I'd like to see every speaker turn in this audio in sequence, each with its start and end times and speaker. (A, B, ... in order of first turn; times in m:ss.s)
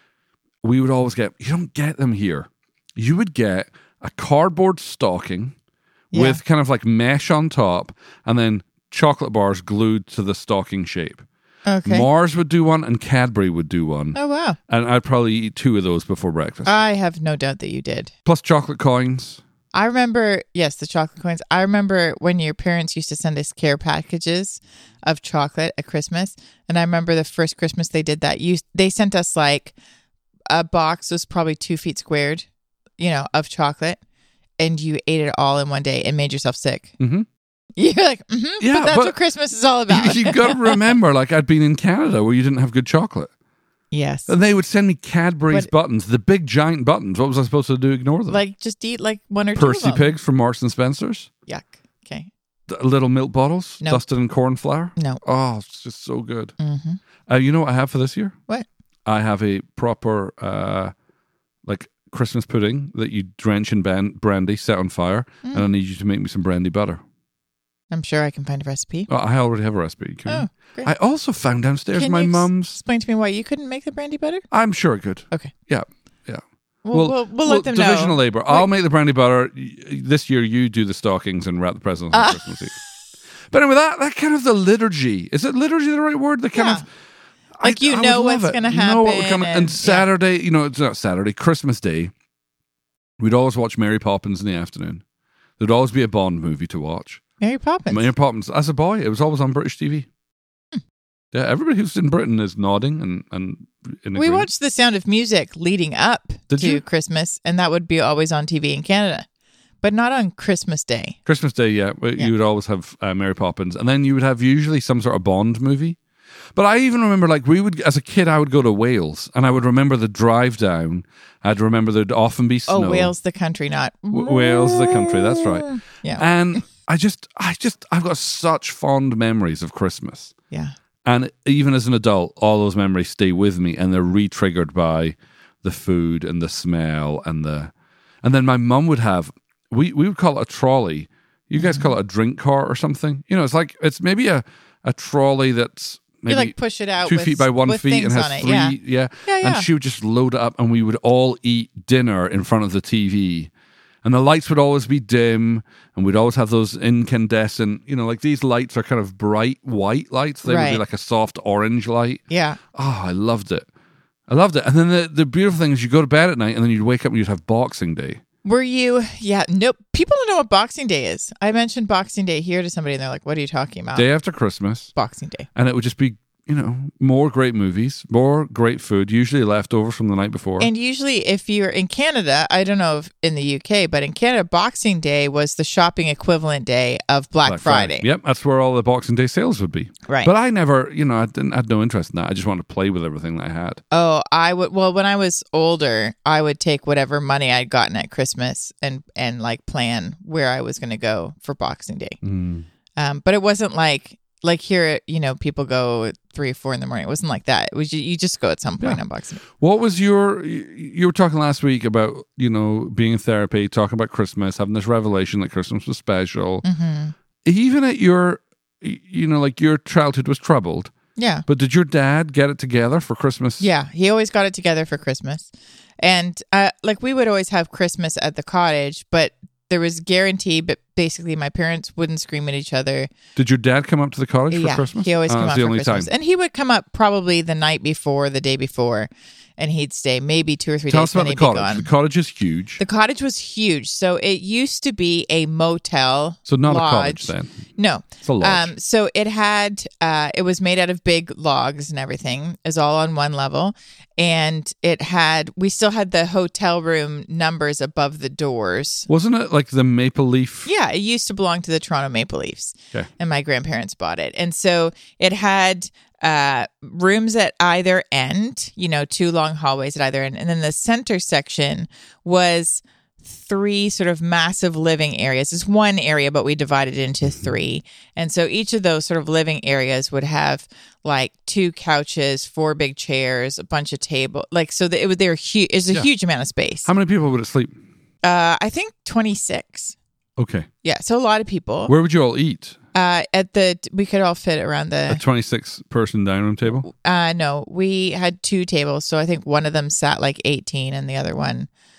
0:00.6-0:05.5 A
0:06.1-0:06.4 B
0:06.1-0:11.2 A
0:11.7-0:12.1 B
0:11.8-0:14.2 A
0:14.2-0:14.6 B
0:14.7-0:16.7 A
0:16.7-0:18.1 B
0:18.3-0:19.4 A
0:19.7-0:29.7 B
0:30.5-0:32.5 B
0:33.0-0:34.0 B
0:34.6-0:36.9 B
0:37.0-0:37.3 A
0:37.8-0:40.9 B
0:38.6-0:39.2 A
0:39.9-0:43.3 A
0:43.9-0:44.3 B
0:44.3-0:48.4 A
0:48.3-0:50.2 B
0:49.6-0:51.3 A
0:51.5-0:52.3 B
0:52.7-0:56.6 A
0:55.0-0:55.2 B
0:56.6-0:57.0 B
0:57.3-0:58.4 A
0:59.1-1:00.9 A
1:01.6-1:07.0 A
1:07.9-1:09.1 B
1:09.1-1:12.8 A
1:10.3-1:10.9 B
1:11.9-1:14.4 B
1:14.5-1:22.8 A
1:16.8-1:18.7 B
1:22.1-1:22.8 B
1:23.5-1:26.8 A
1:26.5-1:26.8 B
1:27.6-1:32.1 A
1:27.6-1:30.1 B
1:33.2-1:35.0 A
1:35.6-1:37.2 A
1:37.4-1:38.1 B
1:37.9-1:40.1 A
1:41.3-1:44.5 A
1:44.2-1:49.3 B
1:46.5-1:46.8 A
1:49.8-1:51.2 B
1:51.3-1:56.0 A
1:56.6-2:03.1 A
2:02.7-2:06.2 B
2:04.1-2:10.3 A
2:11.0-2:17.7 A
2:18.2-2:33.5 A
2:21.6-2:21.9 B
2:26.3-2:29.7 B
2:34.0-2:42.2 A
2:40.4-2:40.8 B
2:42.3-2:42.6 B
2:42.7-2:43.7 A
2:44.3-2:48.2 A
2:48.4-2:54.1 B
2:54.0-2:54.9 A
2:54.9-2:55.5 B
2:55.6-3:00.7 A
3:00.6-3:08.1 B
3:07.4-3:13.8 A
3:10.1-3:10.3 B
3:13.9-3:22.2 B
3:22.2-3:22.7 A
3:23.0-3:29.4 B
3:29.6-3:36.6 A
3:36.6-3:37.2 B
3:37.4-3:40.9 A
3:41.2-3:41.5 B
3:41.5-3:43.7 A
3:43.6-3:45.5 B
3:46.0-3:53.1 B
3:53.4-3:56.1 A
3:54.5-4:01.9 B
4:00.9-4:02.8 A
4:02.8-4:19.1 B
4:06.5-4:07.5 A
4:08.2-4:08.7 A
4:19.1-4:20.7 A
4:20.7-4:46.9 B
4:46.9-4:47.7 A
4:48.2-4:50.0 B
4:50.4-4:50.7 A
4:50.8-4:51.9 B
4:51.9-4:52.8 A
4:52.9-4:55.2 B
4:55.1-4:56.9 A
4:56.8-5:01.7 B